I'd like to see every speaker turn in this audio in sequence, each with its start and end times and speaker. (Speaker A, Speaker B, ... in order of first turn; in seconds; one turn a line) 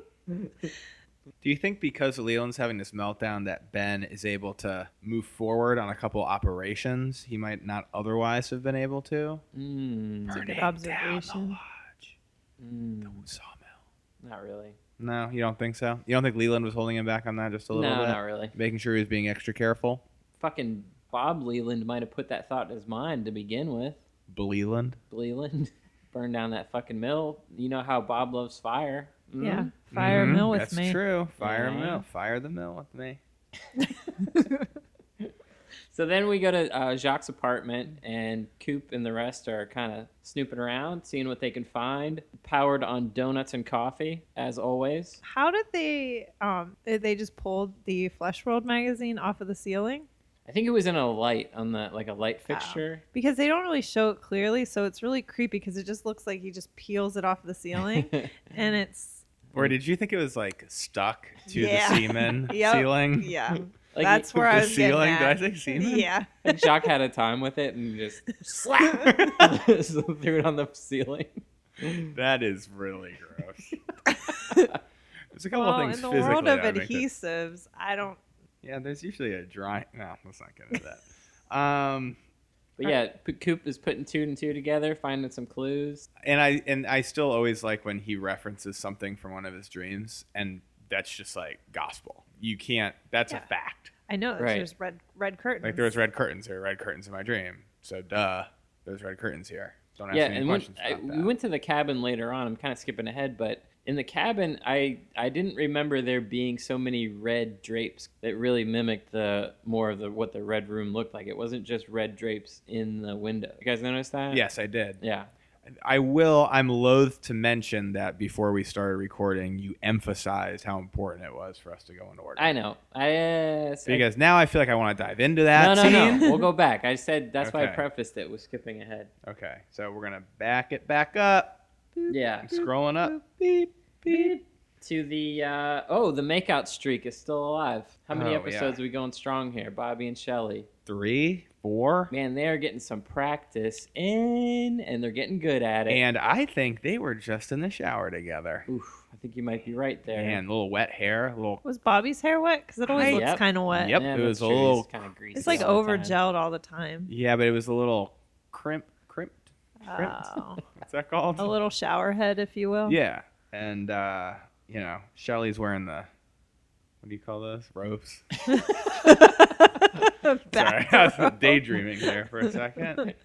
Speaker A: 1.4-9.4
Speaker B: 9.5-10.6
Speaker A: 10.3-12.2
Speaker C: 10.3-11.6
Speaker B: 12.6-13.2
Speaker A: 13.0-13.7
Speaker B: 14.2-14.8
Speaker A: 15.0-20.0
Speaker B: 17.7-18.5
Speaker B: 20.4-24.0
Speaker A: 24.3-25.0
Speaker B: 25.1-30.4
Speaker C: 29.4-31.0
Speaker A: 29.9-33.2
Speaker B: 31.4-32.0
Speaker B: 35.9-45.2
Speaker C: 45.2-50.1
Speaker B: 50.5-53.0
Speaker C: 52.5-59.2
Speaker B: 57.9-58.3
Speaker A: 59.5-63.6
Speaker C: 61.5-66.9
Speaker B: 63.9-64.4
Speaker A: 64.4-66.1
Speaker B: 66.4-72.1
Speaker C: 68.6-69.0
Speaker A: 68.9-69.5
Speaker A: 72.1-73.7
Speaker B: 74.4-74.8
Speaker C: 74.4-74.7
Speaker A: 75.3-77.0
Speaker C: 75.5-78.2
Speaker A: 78.6-82.2
Speaker B: 82.8-86.1
Speaker A: 86.2-93.9
Speaker C: 94.1-96.0
Speaker B: 94.4-94.7
Speaker A: 95.6-101.3
Speaker B: 100.1-114.4
Speaker A: 114.3-115.0
Speaker B: 115.0-115.3
Speaker A: 115.7-122.5
Speaker B: 122.3-124.0
Speaker A: 123.9-126.3
Speaker B: 125.5-129.1
Speaker C: 126.2-126.5
Speaker A: 127.4-127.8
Speaker A: 129.2-134.4
Speaker B: 132.1-132.7
Speaker B: 134.1-140.7
Speaker A: 138.1-138.8
Speaker A: 140.8-142.1
Speaker B: 142.1-146.0
Speaker A: 145.9-148.7
Speaker B: 148.7-150.4
Speaker A: 150.1-151.6
Speaker C: 151.6-154.0
Speaker A: 152.9-155.7
Speaker B: 153.0-156.2
Speaker C: 155.3-157.1
Speaker A: 157.1-161.5
Speaker C: 159.8-160.6
Speaker C: 161.4-163.0
Speaker A: 162.8-166.1
Speaker A: 167.0-168.3
Speaker C: 168.5-172.1
Speaker A: 170.5-173.0